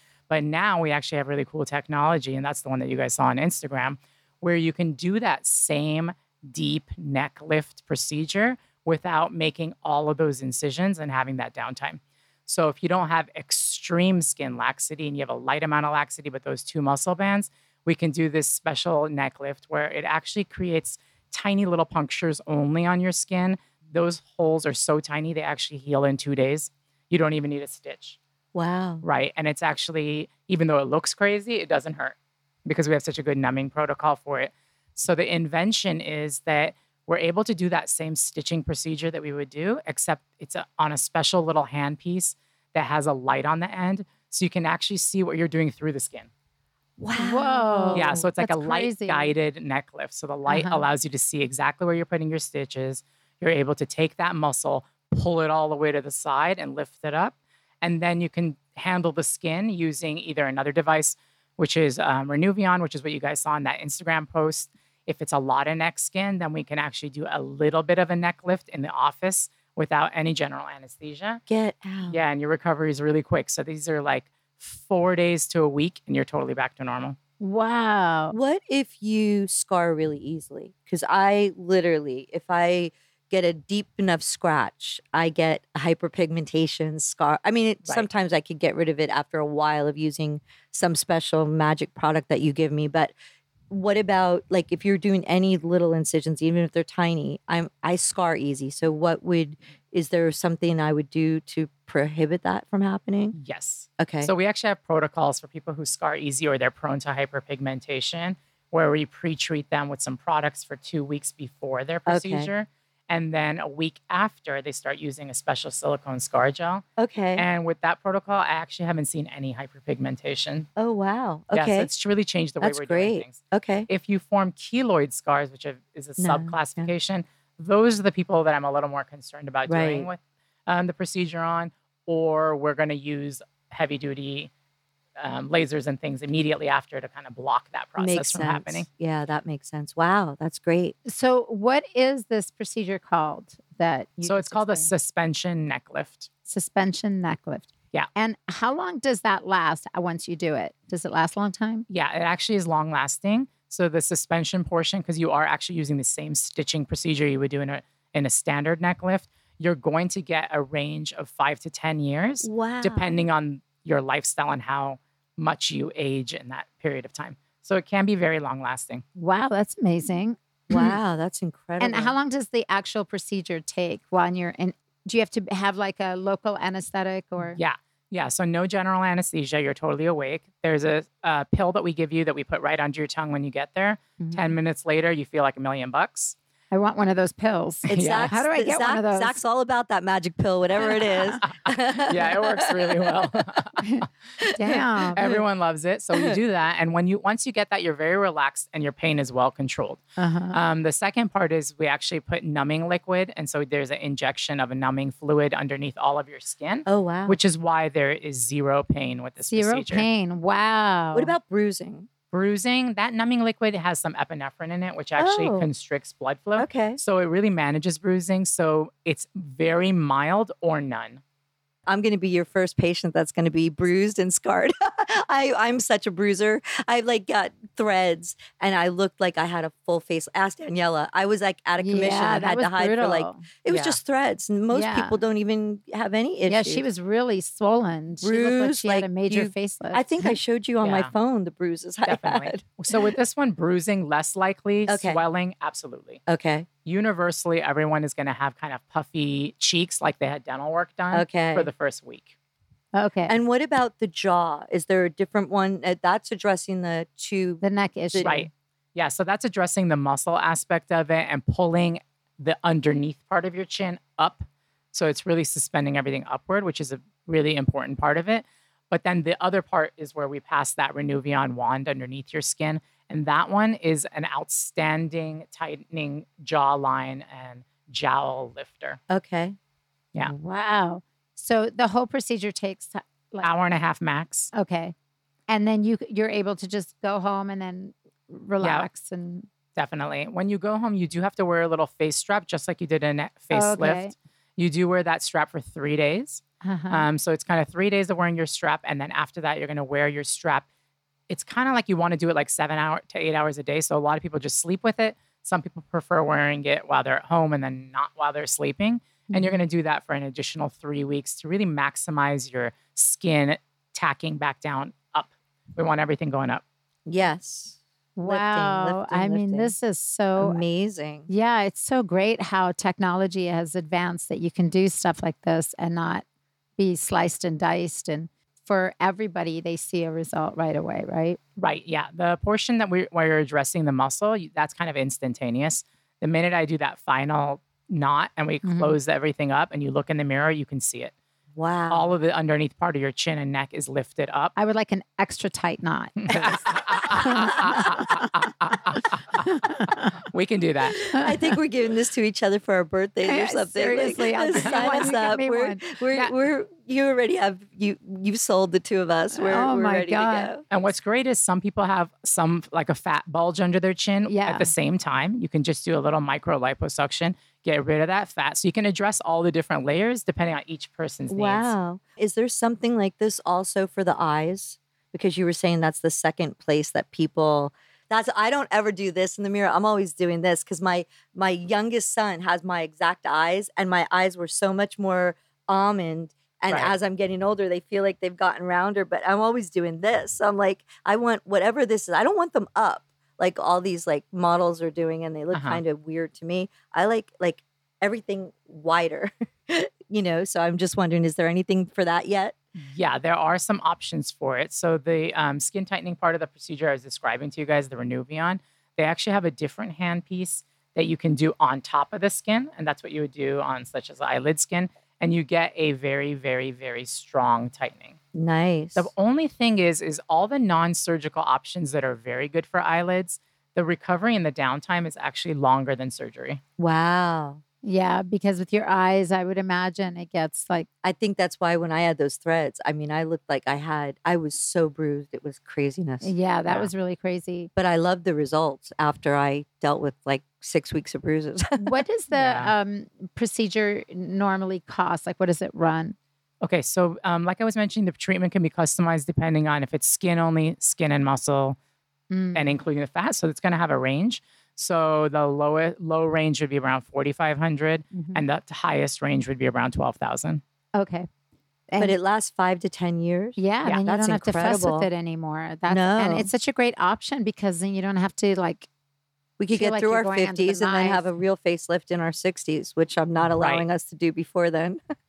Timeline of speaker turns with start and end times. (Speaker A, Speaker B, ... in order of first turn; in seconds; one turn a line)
Speaker A: 0.3-28.2
Speaker B: 28.5-29.0
Speaker A: 29.0-32.1
Speaker A: 32.6-46.3
Speaker B: 47.0-48.2
Speaker C: 47.1-49.3
Speaker A: 47.9-71.4
Speaker C: 50.5-50.8
Speaker B: 71.5-72.2
Speaker A: 72.1-77.2
Speaker C: 77.4-78.3
Speaker B: 78.3-93.1
Speaker B: 93.7-103.3
Speaker A: 103.3-116.8
Speaker B: 104.0-104.3
Speaker B: 112.1-112.5
Speaker B: 117.0-117.5
Speaker A: 117.3-120.7
Speaker B: 120.8-121.9
Speaker A: 121.5-134.5
Speaker B: 122.6-123.9
Speaker B: 126.2-126.9
Speaker B: 129.7-130.1
Speaker A: 135.2-138.8
Speaker B: 138.0-140.9
Speaker C: 141.1-144.9
Speaker A: 144.2-146.3
Speaker C: 146.5-151.8
Speaker A: 151.9-169.0
Speaker B: 162.4-163.1
Speaker C: 169.2-171.0
Speaker B: 170.7-172.2
Speaker C: 171.8-177.6
Speaker A: 177.5-186.3
Speaker C: 184.2-184.5
Speaker C: 186.7-189.4
Speaker B: 187.9-193.2
Speaker A: 187.9-188.3
Speaker A: 191.7-194.1
Speaker C: 193.8-195.2
Speaker B: 194.4-195.4
Speaker A: 195.1-210.1
Speaker C: 200.2-200.6
Speaker B: 206.8-207.4
Speaker C: 209.5-211.3
Speaker B: 211.1-212.1
Speaker A: 212.3-221.2
Speaker B: 215.2-215.7
Speaker B: 216.6-217.0
Speaker B: 221.9-236.8
Speaker C: 231.8-233.4
Speaker A: 233.7-234.0
Speaker C: 234.7-235.2
Speaker C: 236.5-240.3
Speaker B: 238.2-243.0
Speaker A: 240.8-241.1
Speaker A: 242.1-246.2
Speaker B: 244.9-245.2
Speaker B: 246.3-246.7
Speaker A: 246.8-252.3
Speaker B: 251.1-251.7
Speaker C: 252.9-253.3
Speaker B: 253.3-258.3
Speaker C: 257.6-258.5
Speaker A: 258.2-279.0
Speaker B: 279.1-279.6
Speaker C: 280.2-283.5
Speaker A: 283.4-284.5
Speaker C: 284.5-284.9
Speaker C: 285.5-289.5
Speaker A: 288.6-288.9
Speaker A: 289.8-300.6
Speaker C: 293.5-294.1
Speaker C: 296.6-297.1
Speaker A: 301.3-316.6
Speaker C: 309.3-309.6
Speaker B: 317.1-319.7
Speaker C: 318.2-320.6
Speaker B: 320.4-321.3
Speaker C: 321.3-326.2
Speaker C: 326.8-331.4
Speaker A: 331.6-341.1
Speaker C: 338.6-338.9
Speaker B: 341.5-342.1
Speaker A: 341.9-344.5
Speaker C: 344.6-348.3
Speaker A: 346.3-349.4
Speaker C: 349.4-350.1
Speaker A: 350.2-351.1
Speaker B: 351.1-360.6
Speaker C: 353.2-356.3
Speaker A: 354.6-355.1
Speaker C: 359.3-360.5
Speaker A: 360.7-371.7
Speaker C: 364.3-364.7
Speaker B: 371.3-402.6
Speaker A: 395.5-395.8
Speaker A: 402.8-418.2
Speaker B: 418.3-419.1
Speaker A: 418.9-426.6
Speaker B: 426.8-427.6
Speaker C: 427.8-430.9
Speaker B: 431.0-436.3
Speaker C: 436.2-437.7
Speaker B: 437.8-441.9
Speaker C: 441.8-446.1
Speaker A: 442.3-442.7
Speaker A: 446.6-451.8
Speaker C: 452.3-452.8
Speaker A: 452.5-460.6
Speaker C: 458.1-458.4
Speaker C: 460.9-461.3
Speaker C: 461.9-462.1
Speaker B: 462.0-465.1
Speaker C: 463.6-468.9
Speaker B: 465.9-466.5
Speaker B: 469.6-475.0
Speaker C: 469.7-471.3
Speaker A: 473.5-473.8